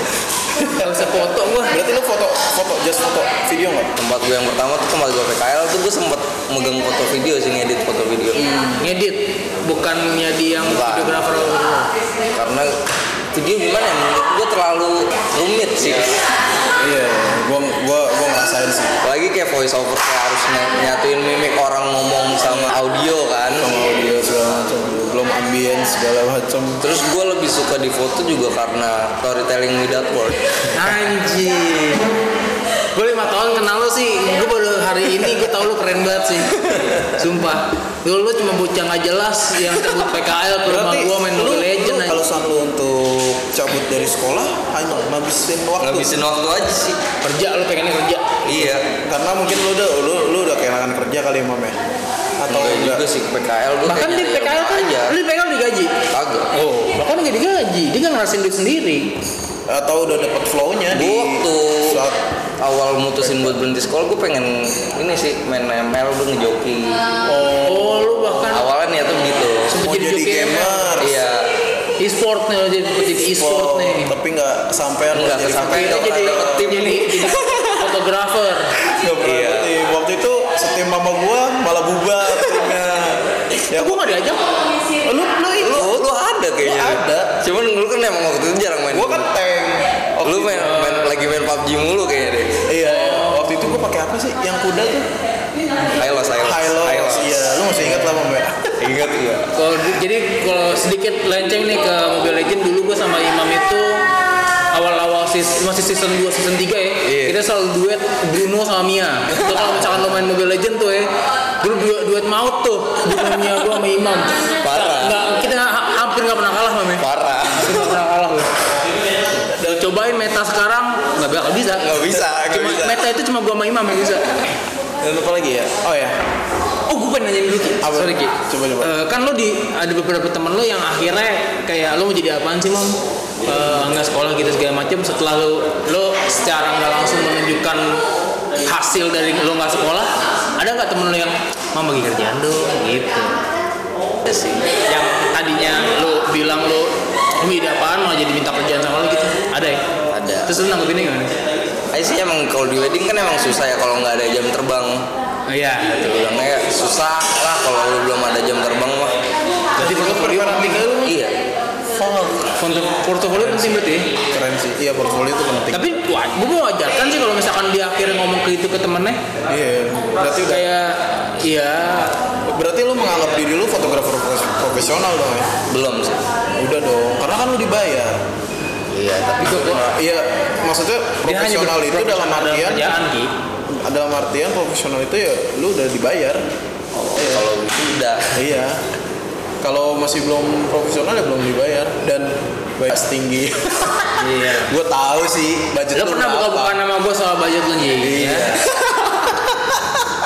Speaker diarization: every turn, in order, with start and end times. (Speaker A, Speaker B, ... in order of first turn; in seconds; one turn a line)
Speaker A: 0.6-3.9
Speaker B: 0.7-1.7
Speaker C: 4.0-8.5
Speaker A: 8.4-8.8
Speaker B: 8.8-11.9
Speaker C: 10.6-11.5
Speaker C: 12.3-12.7
Speaker C: 13.3-16.2
Speaker A: 16.8-18.9
Speaker C: 19.0-23.7
Speaker A: 22.5-22.7
Speaker A: 23.6-26.8
Speaker C: 26.8-30.4
Speaker B: 30.7-32.1
Speaker B: 32.9-42.2
Speaker A: 40.6-46.1
Speaker C: 45.8-47.0
Speaker B: 47.2-48.7
Speaker C: 48.4-48.9
Speaker A: 49.0-51.8
Speaker A: 52.4-53.0
Speaker C: 52.5-55.1
Speaker B: 53.8-55.9
Speaker C: 56.1-56.5
Speaker B: 56.5-59.1
Speaker A: 59.7-62.2
Speaker C: 60.9-62.0
Speaker C: 62.6-67.0
Speaker A: 63.2-63.5
Speaker A: 67.2-68.5
Speaker B: 67.7-68.6
Speaker C: 68.5-69.7
Speaker B: 69.7-70.9
Speaker A: 69.7-71.2
Speaker C: 71.0-71.5
Speaker B: 72.0-74.1
Speaker A: 73.4-76.7
Speaker C: 75.1-77.4
Speaker B: 75.5-78.7
Speaker A: 79.0-84.2
Speaker C: 79.2-79.7
Speaker B: 83.7-84.6
Speaker A: 85.0-86.0
Speaker C: 85.6-89.3
Speaker A: 86.6-87.3
Speaker A: 88.9-91.1
Speaker C: 90.2-92.6
Speaker A: 92.7-95.1
Speaker B: 92.9-93.5
Speaker C: 96.0-97.7
Speaker A: 96.3-98.8
Speaker C: 98.8-99.5
Speaker B: 99.5-104.1
Speaker B: 104.7-118.5
Speaker C: 107.0-107.4
Speaker C: 114.6-115.2
Speaker C: 117.0-118.0
Speaker A: 119.6-119.9
Speaker B: 119.6-124.5
Speaker C: 121.8-123.0
Speaker A: 125.0-126.2
Speaker B: 126.9-138.0
Speaker A: 127.8-128.9
Speaker B: 138.6-143.4
Speaker C: 144.2-144.7
Speaker B: 144.9-149.8
Speaker C: 150.1-150.6
Speaker B: 150.4-151.3
Speaker C: 151.9-155.1
Speaker B: 155.5-156.2
Speaker C: 156.0-159.2
Speaker B: 159.8-161.0
Speaker A: 159.8-161.1
Speaker C: 161.0-161.4
Speaker A: 161.9-162.6
Speaker B: 162.6-164.1
Speaker A: 163.3-165.9
Speaker B: 165.7-169.2
Speaker A: 169.5-170.7
Speaker B: 170.4-172.2
Speaker A: 172.5-175.5
Speaker C: 175.7-176.3
Speaker A: 176.5-178.2
Speaker C: 178.9-179.9
Speaker B: 179.4-179.8
Speaker A: 179.7-182.9
Speaker B: 181.2-183.3
Speaker A: 183.7-186.4
Speaker C: 187.0-188.4
Speaker A: 187.1-187.5
Speaker A: 188.3-188.8
Speaker A: 189.6-196.8
Speaker B: 194.2-194.7
Speaker B: 195.9-198.6
Speaker A: 198.0-199.8